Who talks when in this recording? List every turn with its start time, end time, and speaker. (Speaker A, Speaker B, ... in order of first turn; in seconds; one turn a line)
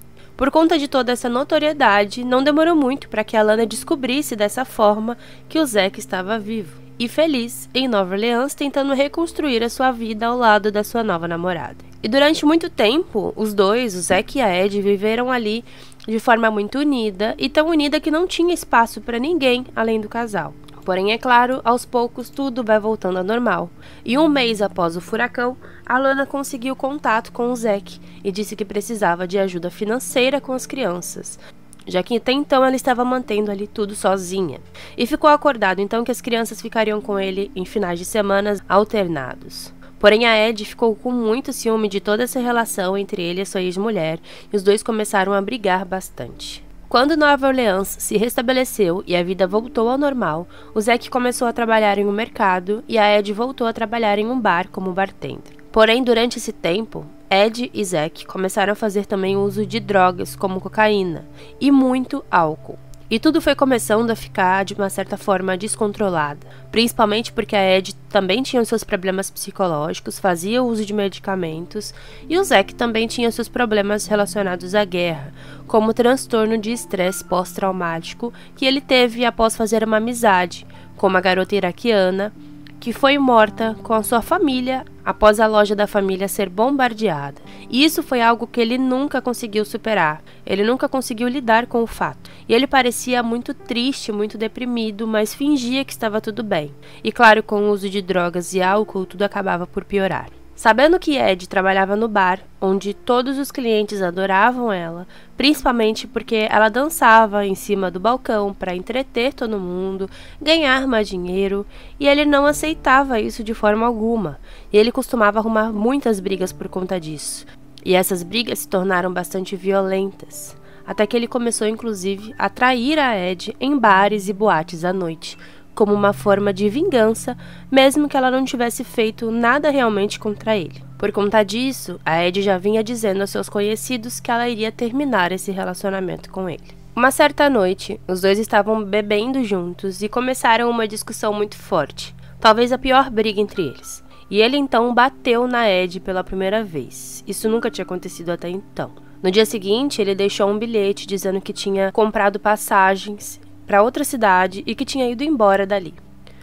Speaker A: 0.3-156.0